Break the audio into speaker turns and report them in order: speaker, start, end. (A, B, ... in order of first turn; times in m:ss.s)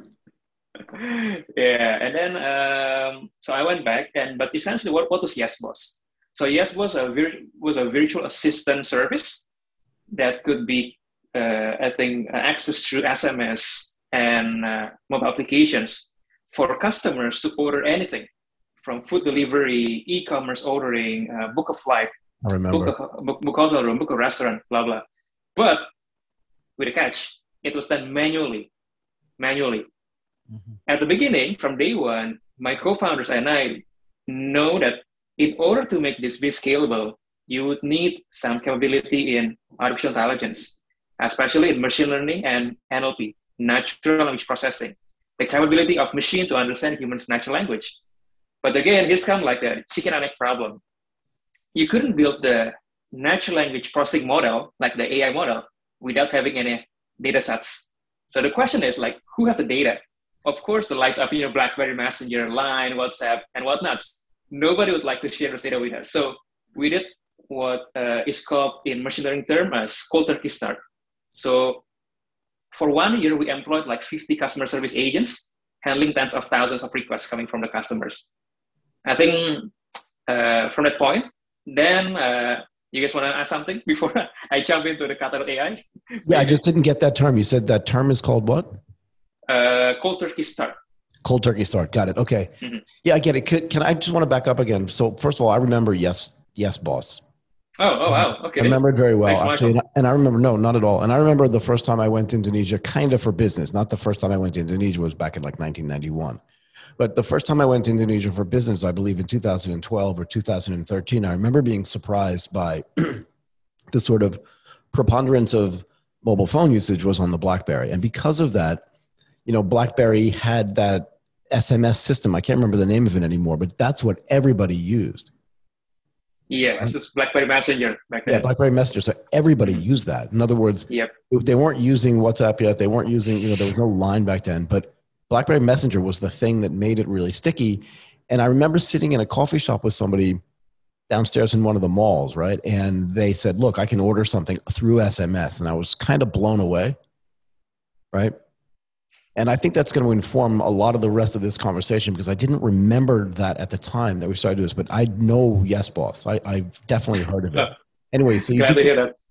0:00.9-0:09.4 A
0:10.1-0:18.3 A
0:18.8-0:22.1 A
0:22.4-0:22.9 B
0:22.7-0:25.0 A
0:25.6-0:25.9 A
0:26.8-0:28.7 A
0:29.4-0:29.9 A
0:30.9-0:48.0 A
0:48.6-0:50.8 A
0:51.7-1:10.8 A
1:11.3-1:11.8 A
1:12.7-1:18.2 A
1:19.0-1:19.7 A
1:20.3-1:26.6 A
1:26.2-1:28.7 B
1:29.5-1:30.8 A
1:31.2-1:32.5 B
1:33.0-1:37.2 B
1:37.8-1:39.8 A
1:38.6-1:46.4 B
1:47.0-1:53.2 B
1:53.9-1:54.4 B
1:54.9-1:58.8 B
1:59.4-2:05.3 B
2:06.5-2:08.5 A
2:08.3-2:20.4 B
2:21.1-2:27.0 B
2:29.4-2:38.9 B
2:38.5-2:39.1 A